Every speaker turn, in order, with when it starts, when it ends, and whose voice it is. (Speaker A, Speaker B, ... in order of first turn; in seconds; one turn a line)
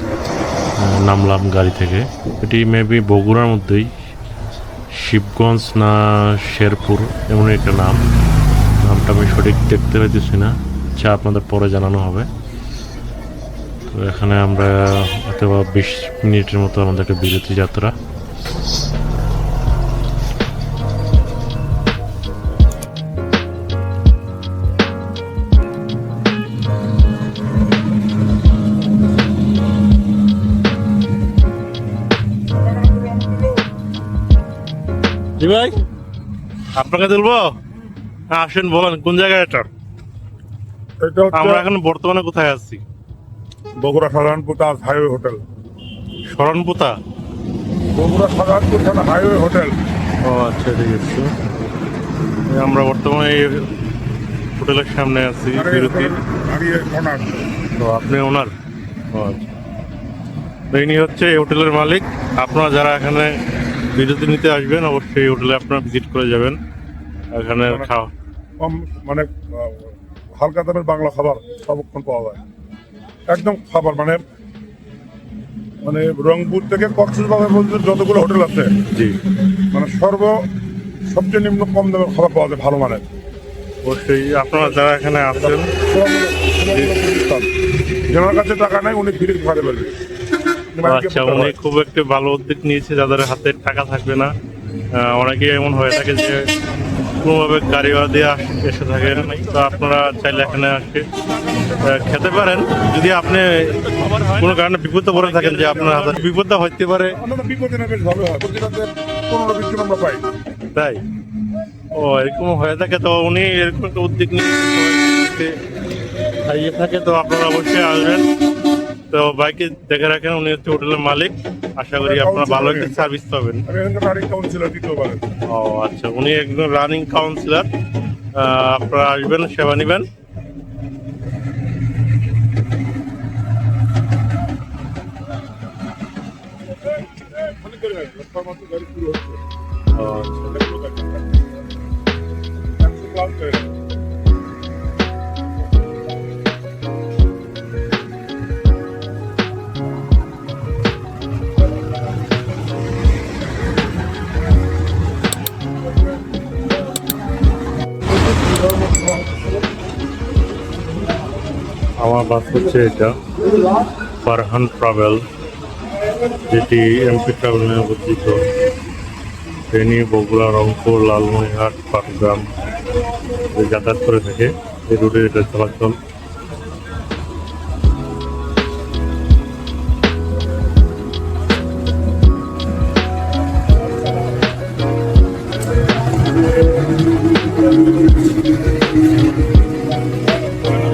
Speaker A: 0.8-3.9
Speaker A: 4.9-8.0
Speaker A: 8.8-12.3
Speaker A: 13.9-17.9
Speaker B: 32.6-33.6
Speaker C: 35.4-35.8
Speaker C: 36.8-37.5
Speaker C: 38.3-39.7
Speaker B: 41.0-41.7
Speaker C: 41.3-42.8
Speaker B: 43.8-45.4
Speaker C: 46.3-47.0
Speaker B: 48.0-49.7
Speaker C: 50.3-51.3
Speaker C: 52.5-53.7
Speaker C: 54.6-56.2
Speaker B: 55.5-57.4
Speaker C: 57.8-58.5
Speaker C: 59.1-59.5
Speaker C: 60.7-63.3
Speaker C: 63.9-66.6
Speaker C: 67.3-68.1
Speaker B: 68.6-72.4
Speaker B: 73.3-74.2
Speaker B: 75.8-78.7
Speaker B: 79.7-80.4
Speaker B: 81.1-83.0
Speaker C: 83.8-85.7
Speaker B: 85.5-87.5
Speaker B: 88.1-90.0
Speaker B: 90.7-91.6
Speaker C: 90.8-94.3
Speaker C: 95.0-96.5
Speaker C: 97.2-101.1
Speaker B: 99.0-102.5
Speaker C: 101.8-107.2
Speaker B: 105.1-106.3
Speaker B: 107.1-110.2
Speaker C: 110.8-111.0
Speaker C: 111.9-115.5
Speaker C: 116.5-118.3
Speaker C: 119.1-123.7
Speaker B: 121.9-123.1
Speaker B: 123.7-125.2
Speaker C: 125.5-127.7
Speaker C: 128.3-130.1
Speaker B: 137.1-139.4
Speaker C: 139.9-140.6
Speaker B: 140.5-141.4
Speaker B: 142.8-143.7
Speaker C: 162.0-163.2
Speaker C: 164.2-165.2
Speaker C: 166.4-168.5
Speaker C: 169.7-172.5
Speaker C: 173.4-176.0